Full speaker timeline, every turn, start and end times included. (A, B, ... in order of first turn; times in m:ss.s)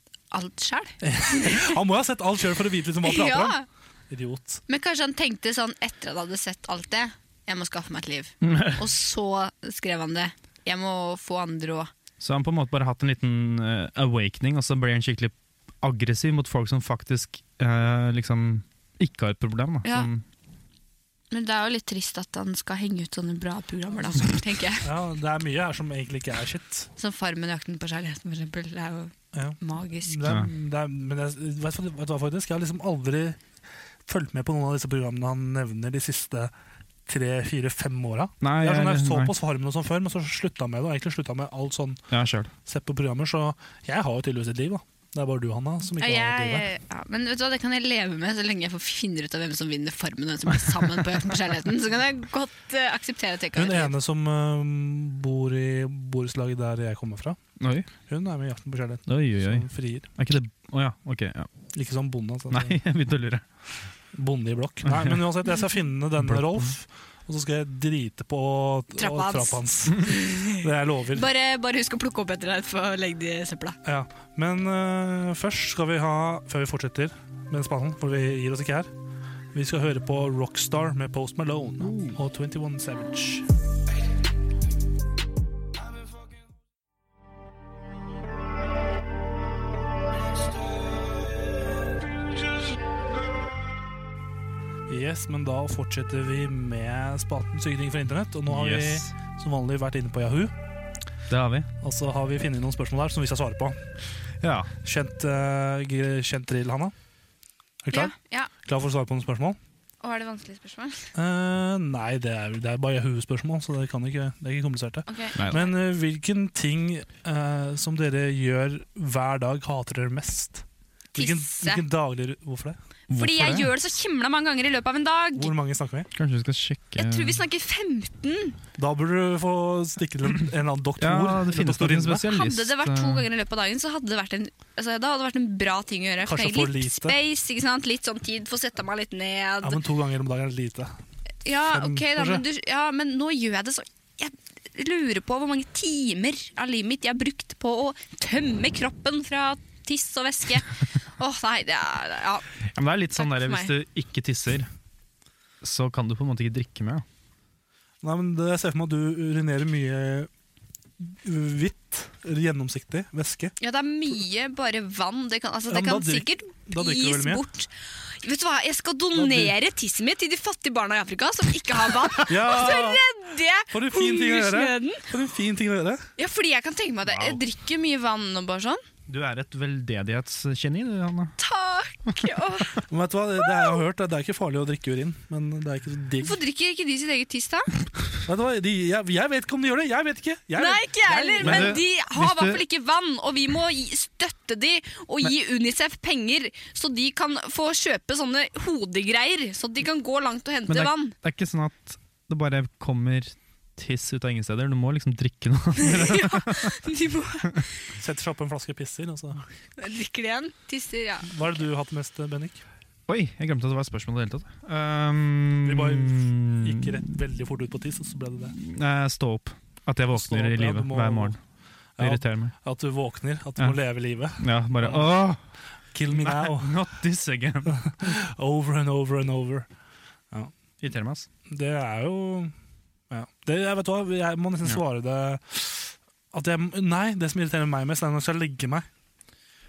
0:00.3-0:01.7 A
0:01.0-0:03.6 B
0:03.0-0:03.7 A
0:04.1-0:04.6 B
0:04.7-0:11.9 A
0:08.4-0:08.9 C
0:12.2-0:20.2 C
0:19.8-0:20.1 A
0:21.3-0:24.8 A
0:24.8-0:26.9 B
0:27.0-0:30.4 A
0:29.3-0:33.4 B
0:34.1-0:36.5 B
0:37.1-0:42.0 B
0:38.4-0:39.3 C
0:42.1-0:42.5 C
0:42.6-0:46.6 B
0:46.0-0:53.9 A
0:53.5-0:57.4 B
0:57.6-0:57.9 C
0:58.1-1:00.1 B
0:59.1-1:01.5 C
1:01.7-1:02.8 B
1:02.5-1:03.4 C
1:04.1-1:11.3 B
1:04.8-1:05.2 C
1:06.2-1:06.7 C
1:09.0-1:13.8 A
1:13.8-1:18.9 B
1:19.5-1:23.5 B
1:21.8-1:22.2 C
1:34.9-1:40.6 B
1:38.5-1:39.1 C
1:41.3-1:41.7 C
1:41.8-1:43.8 B
1:44.4-1:44.7 C
1:44.8-1:46.9 B
1:47.8-1:49.6 B
1:47.9-1:48.5 A
1:50.0-1:51.1 A
1:51.2-2:02.8 B
1:55.1-1:55.7 A
1:55.4-1:55.6 C
2:01.2-2:01.8 A
2:03.1-2:03.7 C
2:03.1-2:05.5 A
2:05.4-2:06.1 B
2:06.2-2:07.4 C
2:07.0-2:08.6 A
2:08.8-2:12.2 B
2:11.0-2:13.3 C
2:12.3-2:19.8 A
2:16.2-2:17.2 B
2:19.6-2:21.0 B
2:21.4-2:32.5 A
2:21.7-2:22.4 B
2:32.7-2:34.7 C
2:33.2-2:33.7 A
2:35.6-2:37.0 C
2:38.0-2:40.3 B
2:41.0-2:43.5 B
2:43.6-2:47.7 A
2:45.7-2:47.4 B
2:48.2-2:55.0 A
2:49.1-2:49.6 B
2:52.3-2:53.0 B
2:53.7-2:56.1 B
2:56.2-2:58.8 A
2:57.0-2:57.4 C
2:59.1-3:01.3 C
3:01.4-3:02.8 A
3:02.9-3:06.4 B
3:06.2-3:07.7 A
3:08.3-3:11.8 B
3:10.6-3:21.1 A
3:11.4-3:12.6 C
3:20.7-3:26.8 C
3:25.8-3:27.7 A
3:28.0-3:29.4 B
3:29.8-3:31.3 A
3:31.3-3:32.6 B
3:33.1-3:37.0 C
3:35.6-3:38.6 B
3:38.5-3:41.4 C
3:40.2-3:41.4 B
3:42.0-3:45.2 B
3:42.0-3:42.5 C
3:44.4-3:45.4 C
3:45.9-3:46.7 B
3:46.1-3:48.1 C
3:47.7-3:49.7 B
3:50.8-3:51.3 C
3:51.5-3:52.5 B
3:53.1-3:58.9 B